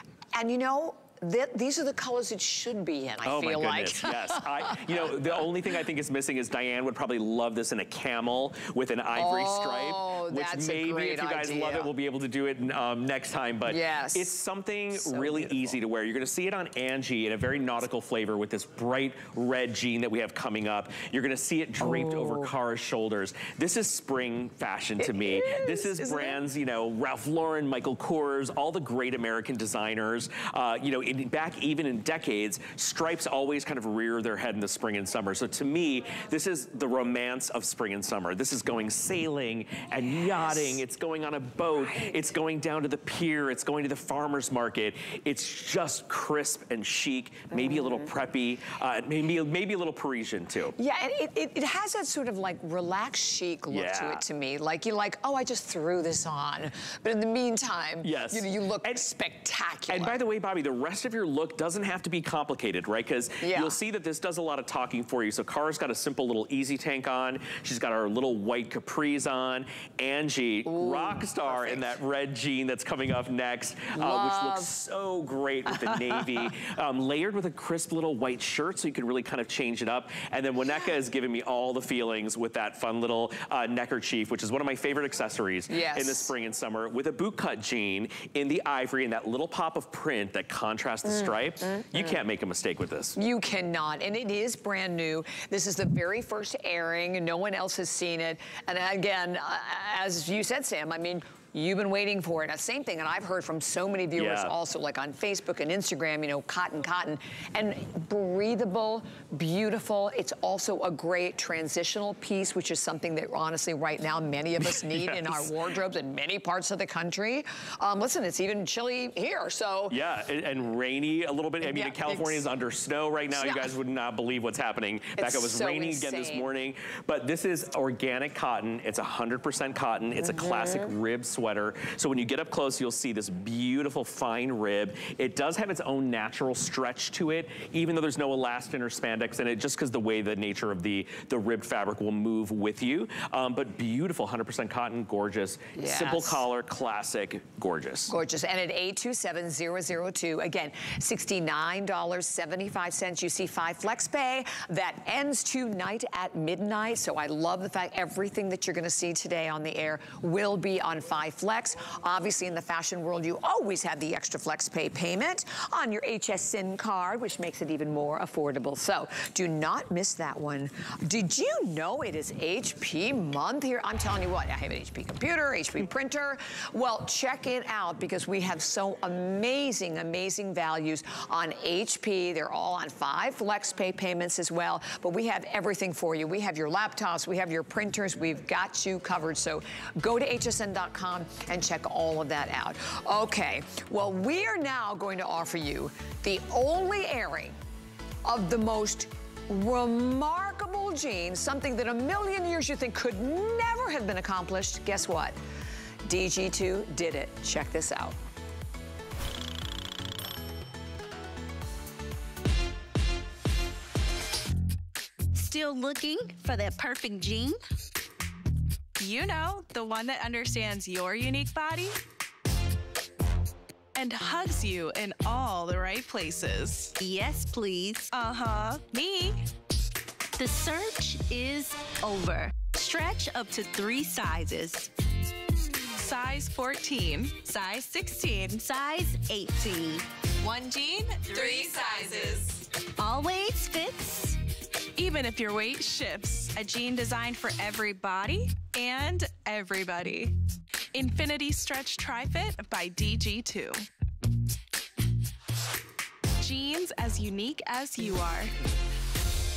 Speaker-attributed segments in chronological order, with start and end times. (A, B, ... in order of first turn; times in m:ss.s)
0:00.3-0:05.2 A
0:03.2-0:50.8 B
0:09.1-0:11.9 A
0:13.6-0:14.4 A
0:15.0-0:15.8 A
0:21.8-0:22.5 A
0:25.0-0:26.4 A
0:47.5-0:48.1 A
0:50.8-1:00.2 A
0:53.7-0:54.2 B
0:58.0-0:59.1 B
0:59.9-1:33.2 B
1:03.4-1:03.8 A
1:10.6-1:11.9 A
1:13.9-1:14.7 A
1:15.7-1:16.3 A
1:25.7-1:26.3 A
1:33.2-2:00.0 A
1:44.2-1:44.5 B
1:54.6-1:55.5 B
1:59.9-2:28.1 B
2:01.6-2:02.4 A
2:03.4-2:03.7 A
2:05.2-2:06.5 A
2:10.3-2:10.8 A
2:25.8-2:26.4 A
2:28.1-3:17.6 A
3:18.2-3:25.4 A
3:26.0-3:28.2 A
3:35.4-3:37.5 C
3:35.5-3:36.3 D
3:39.0-3:42.0 C
3:43.9-3:47.0 C
3:47.0-3:48.1 D
3:48.0-3:49.4 C
3:50.4-3:54.9 D
3:52.6-3:53.8 C
3:55.9-4:04.4 C
3:58.7-3:59.2 D
4:04.9-4:10.4 C
4:10.9-4:13.8 C
4:16.4-4:18.6 C